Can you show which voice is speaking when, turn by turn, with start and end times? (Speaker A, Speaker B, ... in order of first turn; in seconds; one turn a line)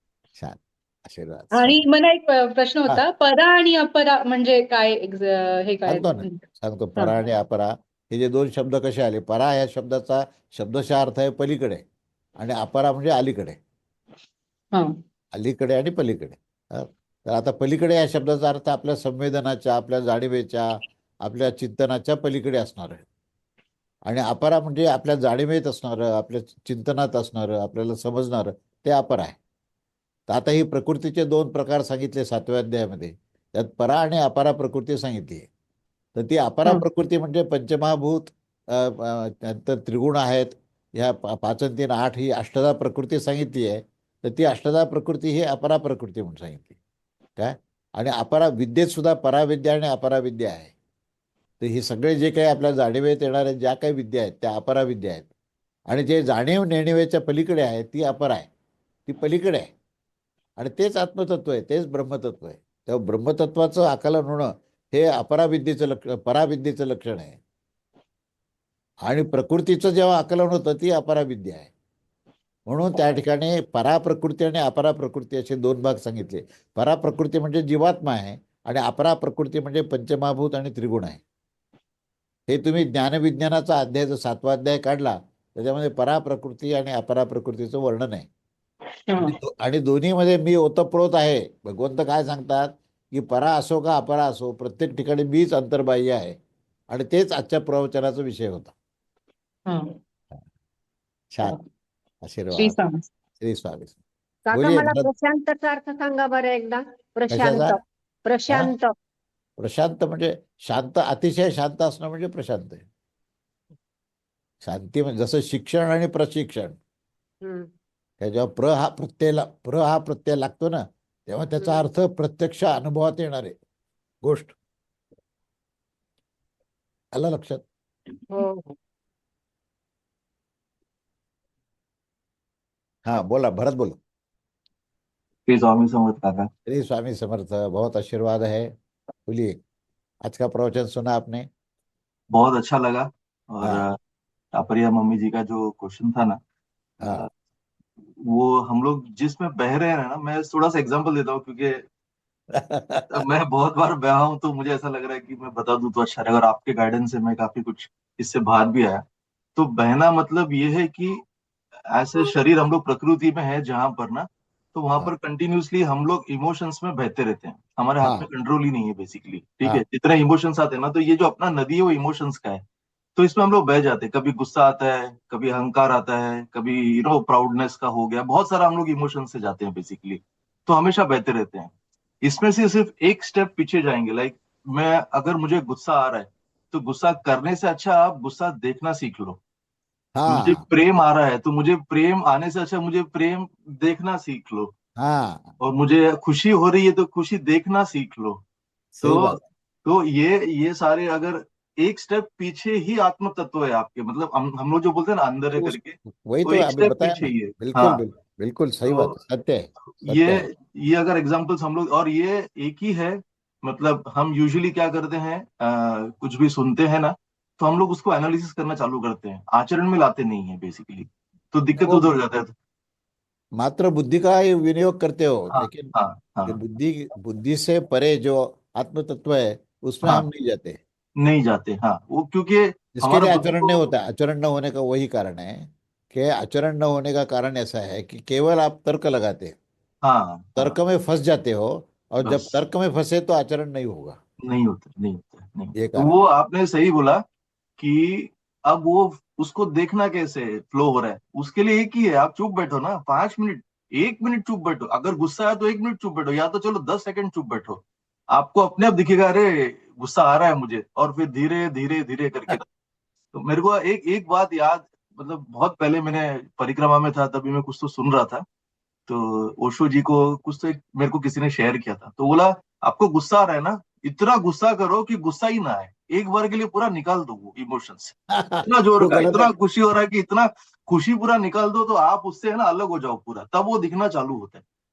Speaker A: 0.4-1.8
Speaker B: 1.5-6.4
Speaker A: 5.9-11.8
Speaker A: 12.4-13.6
Speaker A: 15.3-20.7
Speaker A: 21.2-23.1
Speaker A: 24.1-29.4
Speaker A: 30.3-35.5
Speaker A: 36.1-46.8
Speaker A: 47.4-50.7
Speaker A: 51.6-55.3
Speaker A: 55.9-58.5
Speaker A: 59.1-59.7
Speaker A: 60.6-67.4
Speaker A: 69.1-71.7
Speaker A: 72.7-81.2
Speaker A: 82.5-88.3
Speaker B: 89.1-89.4
Speaker A: 89.2-96.4
Speaker A: 96.9-98.7
Speaker B: 99.7-99.9
Speaker A: 101.3-101.6
Speaker A: 102.2-102.8
Speaker B: 102.5-103.0
Speaker A: 103.4-104.0
Speaker C: 104.5-109.0
Speaker A: 104.5-105.1
Speaker A: 107.3-107.8
Speaker A: 109.6-112.8
Speaker A: 114.6-116.8
Speaker C: 117.4-117.7
Speaker A: 118.2-123.6
Speaker A: 124.2-124.5
Speaker A: 127.1-127.6
Speaker C: 128.3-128.7
Speaker A: 133.1-134.0
Speaker D: 135.5-136.5
Speaker A: 136.7-138.7
Speaker A: 139.2-139.6
Speaker A: 140.2-141.5
Speaker D: 142.3-144.0
Speaker D: 144.6-146.4
Speaker A: 147.0-147.3
Speaker D: 147.0-147.3
Speaker D: 148.2-151.8
Speaker A: 152.5-153.2
Speaker D: 153.1-159.0
Speaker D: 159.6-161.2
Speaker D: 161.9-172.6
Speaker A: 168.0-168.3
Speaker D: 173.2-181.7
Speaker D: 182.2-189.4
Speaker A: 190.2-190.6
Speaker D: 190.3-194.7
Speaker A: 195.0-195.5
Speaker D: 195.6-198.4
Speaker A: 199.0-199.4
Speaker D: 199.0-208.0
Speaker A: 205.6-210.5
Speaker D: 208.9-209.2
Speaker D: 210.0-222.5
Speaker A: 221.8-222.1
Speaker A: 223.6-225.9
Speaker D: 225.5-226.6
Speaker A: 226.5-230.8
Speaker D: 231.2-233.8
Speaker A: 233.0-239.6
Speaker D: 240.0-240.8
Speaker A: 240.6-244.2
Speaker D: 242.2-242.5
Speaker D: 244.4-247.2
Speaker A: 245.8-246.1
Speaker D: 247.8-257.8
Speaker D: 258.3-262.6
Speaker D: 263.3-268.4
Speaker D: 269.1-284.6
Speaker A: 278.3-279.5